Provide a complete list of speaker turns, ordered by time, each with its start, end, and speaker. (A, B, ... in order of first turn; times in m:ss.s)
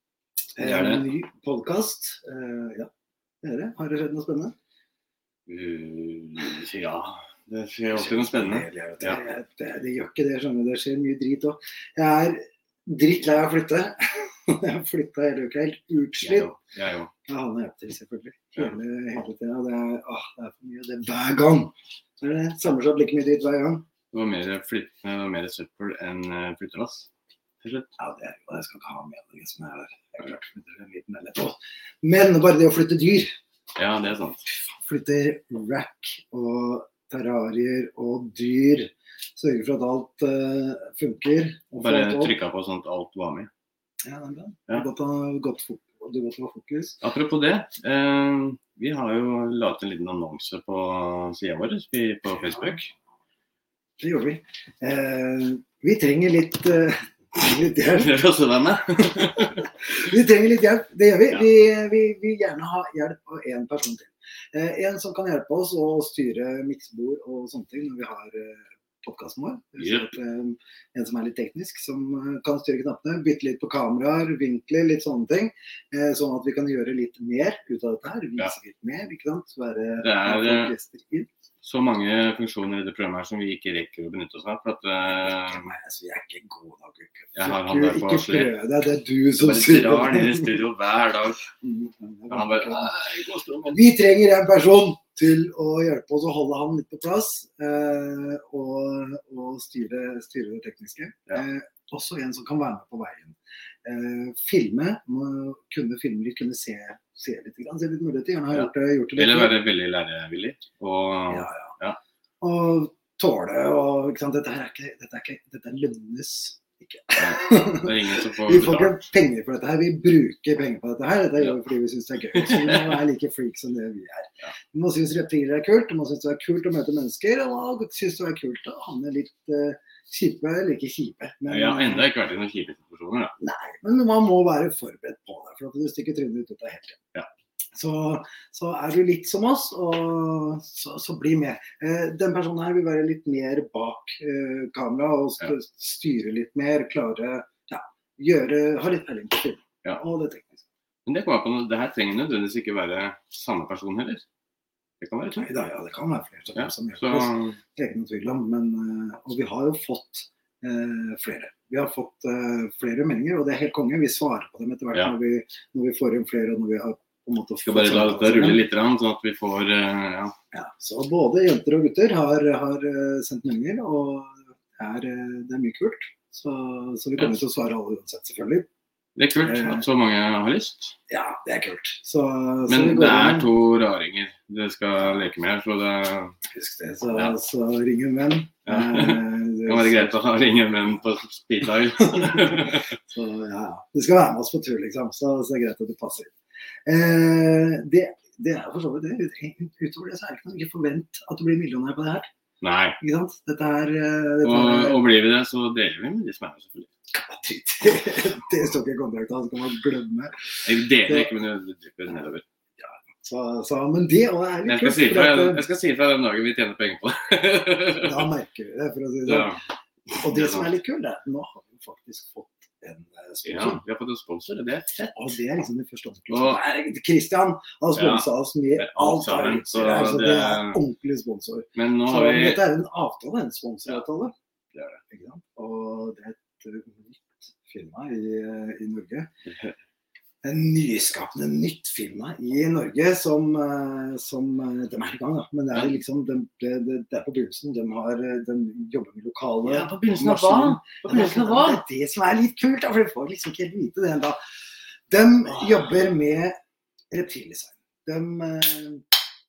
0:00.6-0:02.9 A
0:00.6-0:01.1 B
0:03.4-0:04.6 A
0:05.5-0:09.2 B
0:07.9-0:16.5 A
0:16.2-0:17.1 B
0:17.3-0:23.8 A
0:24.1-0:27.1 B
0:27.6-0:27.9 B
0:28.0-0:33.3 A
0:33.8-0:34.4 B
0:34.7-0:42.4 A
0:41.8-0:43.5 B
0:44.0-0:47.0 A
0:47.0-0:52.9 B
0:54.0-0:58.2 A
0:57.9-0:59.6 B
0:59.0-1:21.3 A
1:09.8-1:10.1 B
1:20.0-1:20.7 B
1:21.6-1:25.7 B
1:25.1-1:30.6 A
1:27.4-1:28.5 B
1:29.4-1:31.4 B
1:31.6-1:32.9 A
1:32.3-1:33.8 B
1:33.7-1:49.6 A
1:48.5-1:52.0 B
1:51.3-1:51.8 A
1:52.4-2:12.1 A
1:57.2-1:58.9 B
2:02.4-2:03.0 B
2:11.5-2:13.4 B
2:13.4-2:17.0 A
2:17.7-2:30.6 A
2:31.1-2:34.2 B
2:35.0-2:35.5 B
2:35.4-2:48.6 A
2:36.6-2:37.6 B
2:47.7-2:50.4 B
2:50.5-2:58.7 A
2:59.2-3:01.0 B
2:59.4-2:59.8 A
3:01.1-3:03.5 A
3:02.7-3:06.4 B
3:06.5-3:10.2 A
3:08.7-3:12.9 B
3:12.0-3:16.3 A
3:16.9-3:22.3 A
3:22.6-3:23.0 B
3:23.0-3:25.0 A
3:24.4-3:26.9 B
3:27.1-3:31.3 A
3:30.6-3:32.4 B
3:32.8-3:35.6 A
3:34.6-3:38.3 B
3:38.0-3:39.6 A
3:39.3-3:40.7 B
3:40.2-3:43.8 A
3:43.4-3:44.9 B
3:44.9-3:54.3 A
3:46.3-3:46.6 B
3:47.9-3:50.8 B
3:51.8-3:52.6 B
3:54.7-3:55.0 B
3:55.1-3:59.3 A
3:59.5-3:59.7 B
4:00.4-4:14.4 A
4:09.6-4:11.8 B
4:15.1-4:16.6 A
4:15.5-4:15.9 B
4:17.1-4:19.1 A